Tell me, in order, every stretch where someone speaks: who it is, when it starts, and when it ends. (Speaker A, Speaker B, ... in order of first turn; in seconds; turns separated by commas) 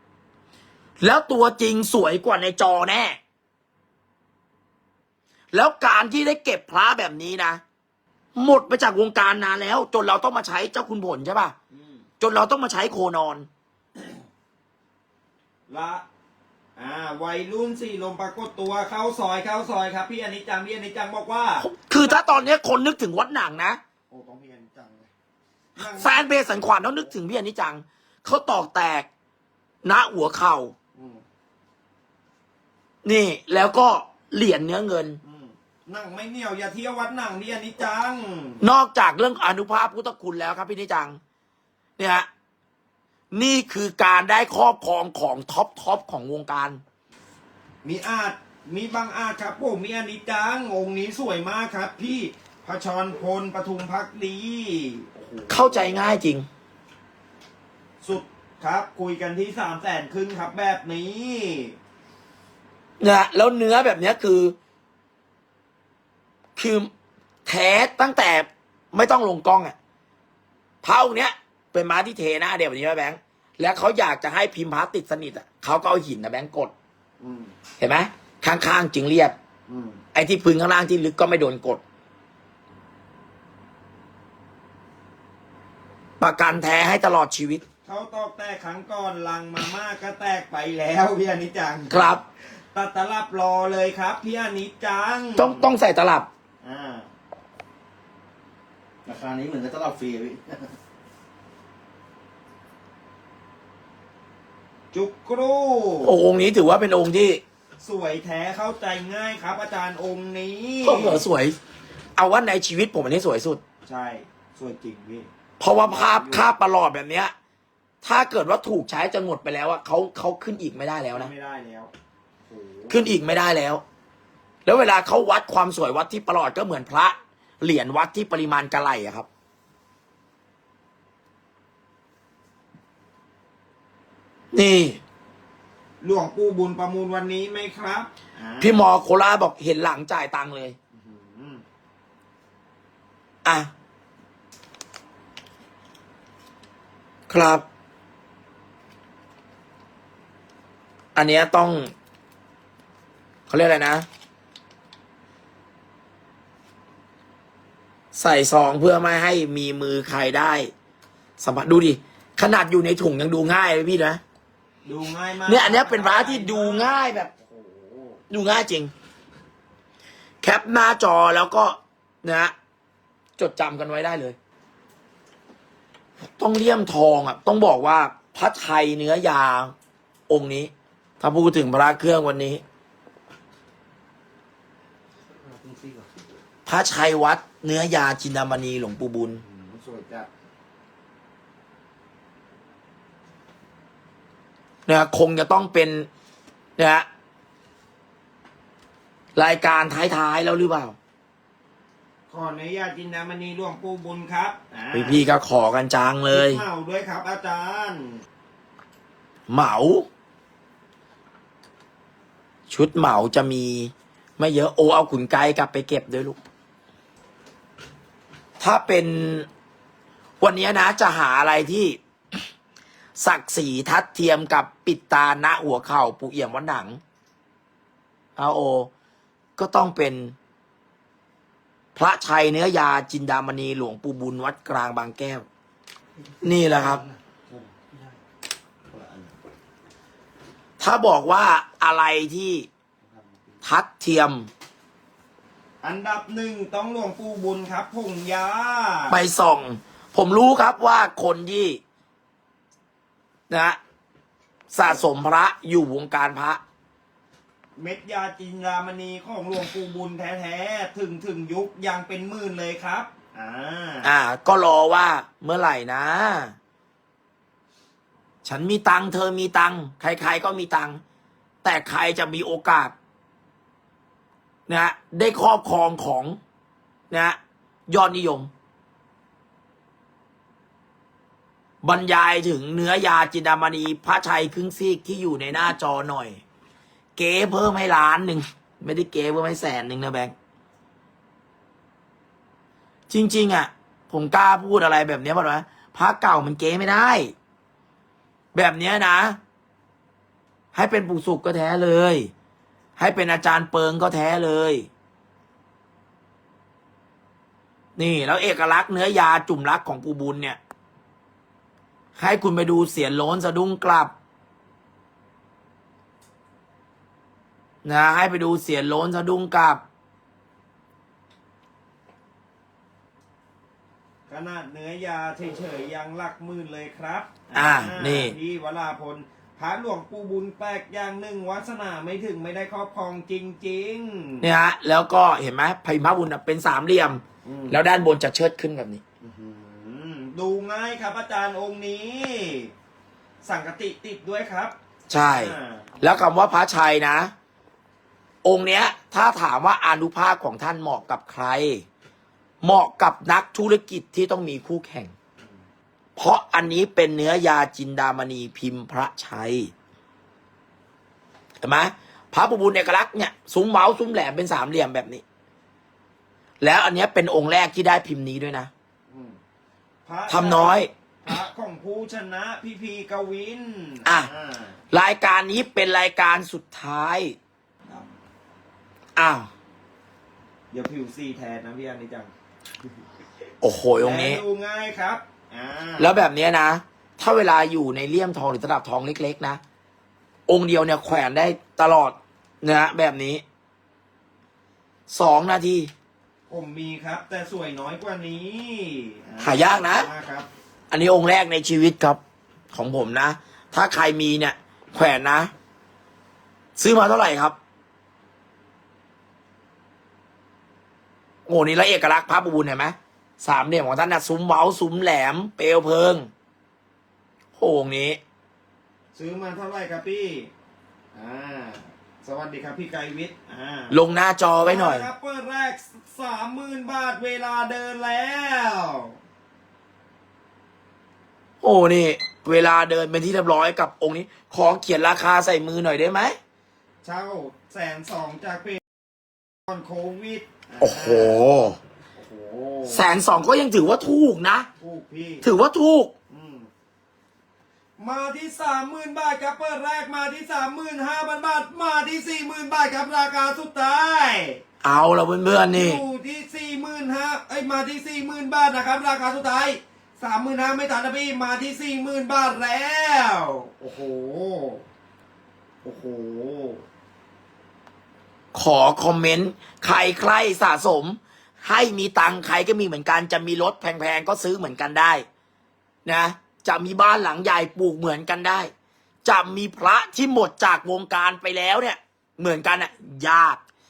Speaker A: 1.0-3.2, Speaker A: 5.5-7.6, Speaker A: 8.4-11.6, Speaker B: 11.7-12.0, Speaker A: 12.2-13.5, Speaker B: 15.7-16.0, Speaker B: 16.8-21.7, Speaker A: 21.6-23.8, Speaker B: 24.1-25.1, Speaker B: 25.8-26.3, Speaker A: 25.8-29.1, Speaker A: 29.8-30.7, Speaker B: 30.9-31.2, Speaker A: 33.0-35.2, Speaker B: 35.2-38.6, Speaker A: 38.6-41.2, Speaker A: 42.0-42.3, Speaker A: 43.3-46.8, Speaker B: 47.8-56.0, Speaker A: 55.5-56.5, Speaker B: 58.0-61.8, Speaker A: 63.0-64.6, Speaker A: 66.6-66.9, Speaker A: 67.5-69.8, Speaker A: 70.8-76.7, Speaker C: 77.2-77.5, Speaker A: 77.8-79.4, Speaker A: 80.1-81.8, Speaker A: 86.2-87.6, Speaker B: 87.8-91.9, Speaker A: 91.9-92.2, Speaker B: 92.6-95.7, Speaker C: 94.8-95.4, Speaker A: 95.4-96.3, Speaker B: 96.6-97.1, Speaker C: 99.1-100.7, Speaker B: 104.9-106.1, Speaker A: 106.0-107.4, Speaker B: 107.8-108.3, Speaker C: 108.2-109.3, Speaker B: 109.0-111.2, Speaker A: 110.8-111.6, Speaker A: 112.2-113.6, Speaker B: 113.9-115.3, Speaker A: 115.6-117.3, Speaker B: 115.8-116.5, Speaker A: 118.0-121.3, Speaker B: 121.1-121.9, Speaker B: 122.5-123.0, Speaker A: 122.9-123.8, Speaker A: 124.7-129.3, Speaker A: 134.5-135.0, Speaker B: 136.0-138.8, Speaker A: 138.6-140.8, Speaker B: 140.9-141.6, Speaker A: 143.4-143.7, Speaker A: 147.3-147.6, Speaker A: 151.2-151.9, Speaker A: 153.5-154.1, Speaker A: 158.1-160.7, Speaker A: 161.4-164.2, Speaker B: 164.8-166.9, Speaker A: 165.4-167.3, Speaker C: 167.6-168.2, Speaker A: 168.3-168.9, Speaker A: 170.4-172.5, Speaker A: 173.4-174.4, Speaker A: 176.4-179.7, Speaker A: 180.3-182.6, Speaker C: 185.4-186.1, Speaker A: 186.7-189.4, Speaker C: 189.4-190.3, Speaker A: 194.9-196.1, Speaker A: 196.8-197.1, Speaker A: 199.4-201.0, Speaker B: 202.3-205.3, Speaker A: 204.9-206.6, Speaker B: 206.3-208.2, Speaker A: 209.5-210.1, Speaker A: 212.7-216.4, Speaker A: 218.6-219.5, Speaker A: 220.4-222.0, Speaker A: 223.2-227.0, Speaker A: 228.4-228.9, Speaker A: 229.6-230.3, Speaker A: 231.9-235.5, Speaker A: 236.4-237.0, Speaker C: 236.8-238.2, Speaker C: 238.9-239.3, Speaker A: 240.8-242.7, Speaker C: 243.1-243.4, Speaker A: 243.6-244.5, Speaker B: 245.8-249.2, Speaker A: 249.1-251.8, Speaker A: 253.5-253.8, Speaker A: 254.7-256.6, Speaker B: 257.8-264.1, Speaker A: 264.0-266.6, Speaker A: 268.4-271.0, Speaker A: 271.6-272.9, Speaker A: 274.7-276.4, Speaker A: 277.1-277.4, Speaker A: 277.9-278.5, Speaker A: 281.8-286.4, Speaker A: 287.2-290.3, Speaker A: 293.1-297.3, Speaker A: 298.5-299.4, Speaker A: 300.7-302.3, Speaker A: 303.0-304.9, Speaker A: 308.0-310.6, Speaker A: 312.2-314.1, Speaker A: 317.8-319.8, Speaker B: 324.3-334.5, Speaker A: 327.5-328.4, Speaker A: 334.4-339.0, Speaker B: 337.4-337.8, Speaker B: 339.2-342.7, Speaker B: 343.4-344.7, Speaker A: 345.1-347.3, Speaker B: 345.3-345.9, Speaker A: 348.4-351.9, Speaker A: 352.6-355.1, Speaker A: 356.2-359.7, Speaker A: 361.6-365.2, Speaker A: 366.6-368.7, Speaker B: 369.1-369.4, Speaker B: 370.1-374.8, Speaker A: 370.3-370.9, Speaker A: 374.1-374.3, Speaker A: 374.9-377.4, Speaker A: 379.2-379.5, Speaker B: 380.7-382.3, Speaker A: 383.6-384.4, Speaker B: 384.0-386.1, Speaker A: 386.0-389.6, Speaker A: 390.5-393.4, Speaker A: 395.1-395.9, Speaker B: 396.5-400.5, Speaker A: 399.4-400.1, Speaker A: 400.9-402.2, Speaker A: 402.7-405.5, Speaker A: 406.8-407.6, Speaker A: 411.5-416.3, Speaker A: 417.6-418.2, Speaker B: 419.1-420.5, Speaker B: 421.1-424.0, Speaker A: 423.9-425.1, Speaker B: 424.6-429.2, Speaker A: 431.6-436.4, Speaker B: 437.0-438.8, Speaker B: 439.7-441.4, Speaker A: 440.8-441.8, Speaker B: 442.2-443.1, Speaker A: 442.9-444.7, Speaker B: 444.8-445.5, Speaker A: 445.4-446.1, Speaker B: 446.3-446.7, Speaker B: 448.0-454.6, Speaker A: 454.8-456.0, Speaker B: 455.7-464.8, Speaker B: 465.8-466.8, Speaker A: 468.5-475.2, Speaker A: 476.1-478.7, Speaker A: 479.2-483.6